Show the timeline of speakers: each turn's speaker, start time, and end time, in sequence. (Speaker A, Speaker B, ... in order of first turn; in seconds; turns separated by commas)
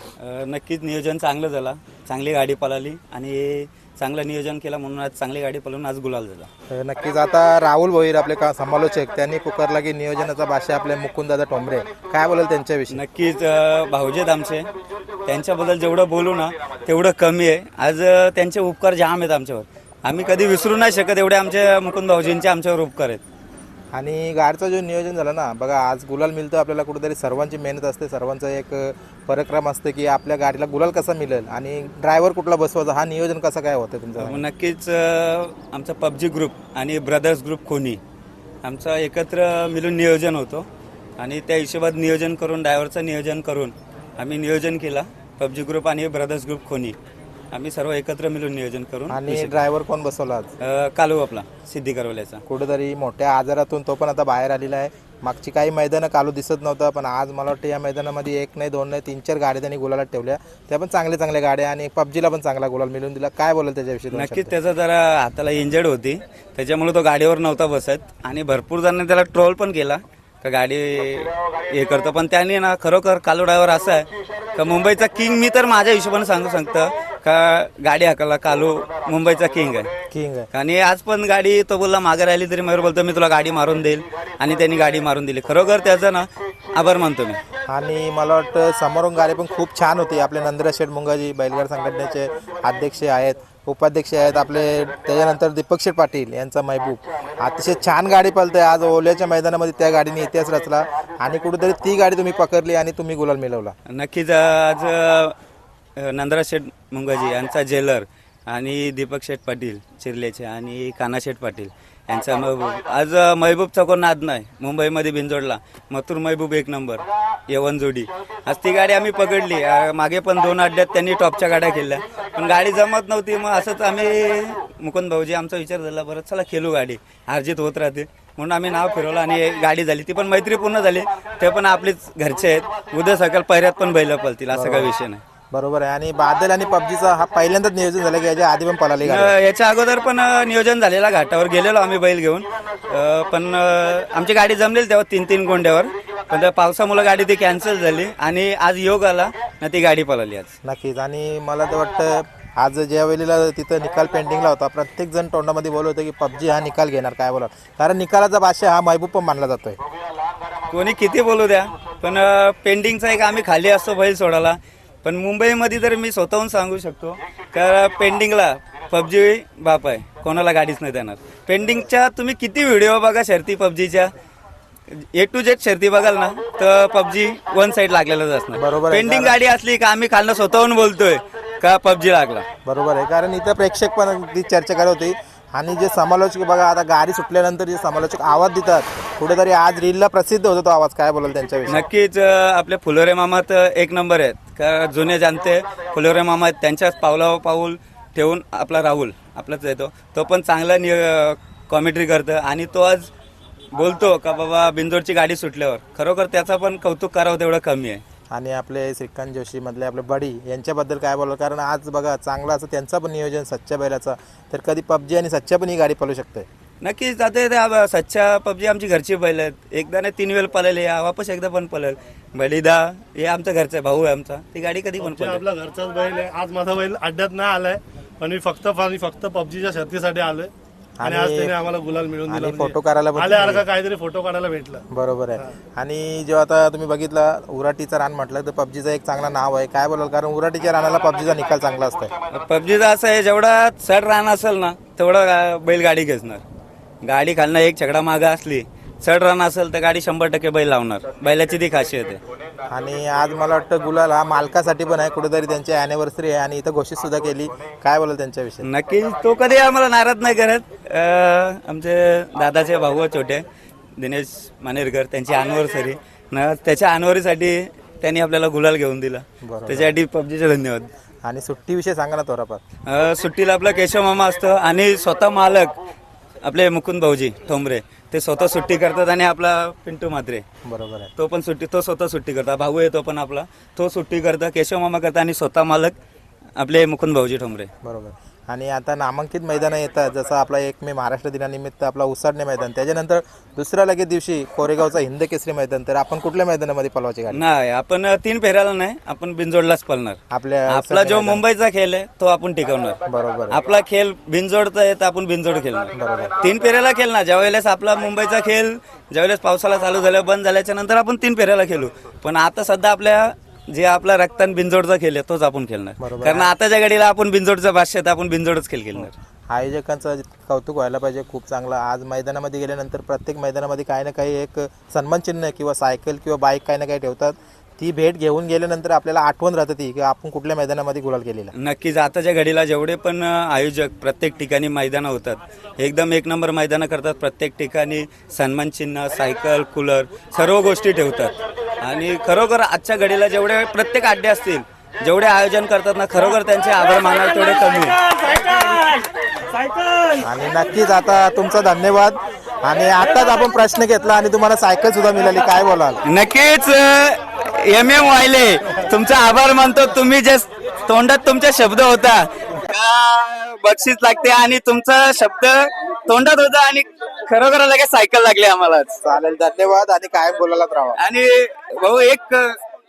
Speaker A: 0.2-6.5, Speaker B: 6.7-13.0, Speaker A: 12.9-14.7, Speaker A: 15.3-23.2, Speaker B: 23.9-34.4, Speaker A: 34.2-38.0, Speaker A: 38.6-47.0, Speaker A: 47.5-49.6, Speaker B: 49.1-50.5, Speaker A: 50.6-52.4, Speaker B: 52.5-64.5, Speaker A: 64.1-79.9, Speaker B: 80.1-80.5, Speaker A: 80.5-87.4, Speaker B: 87.7-103.8, Speaker A: 103.9-105.3, Speaker A: 106.0-135.2, Speaker B: 134.5-134.9, Speaker B: 135.5-139.3, Speaker A: 139.0-150.6, Speaker B: 150.7-159.8, Speaker A: 160.7-174.1, Speaker A: 174.9-182.5, Speaker B: 178.6-179.4, Speaker B: 182.7-191.8, Speaker A: 191.7-203.1, Speaker A: 203.7-208.0, Speaker B: 208.3-216.5, Speaker A: 216.8-225.4, Speaker C: 225.0-230.5, Speaker B: 231.0-231.6, Speaker C: 231.0-234.8, Speaker B: 232.3-233.7, Speaker B: 234.9-242.1, Speaker A: 242.3-246.4, Speaker A: 247.0-252.2, Speaker B: 252.7-258.7, Speaker A: 258.6-263.4, Speaker A: 264.0-270.9, Speaker B: 269.4-269.9, Speaker B: 271.2-272.6, Speaker A: 272.9-275.7, Speaker A: 276.4-280.4, Speaker B: 280.6-281.1, Speaker A: 281.2-286.0, Speaker A: 286.6-287.7, Speaker B: 287.8-297.4, Speaker A: 297.3-319.1, Speaker B: 300.3-301.4, Speaker B: 303.1-303.6, Speaker B: 305.9-306.3, Speaker B: 316.0-316.5, Speaker B: 319.0-331.5, Speaker A: 331.6-348.4, Speaker B: 350.2-356.0, Speaker A: 356.1-369.0, Speaker B: 369.0-371.0, Speaker A: 371.0-372.6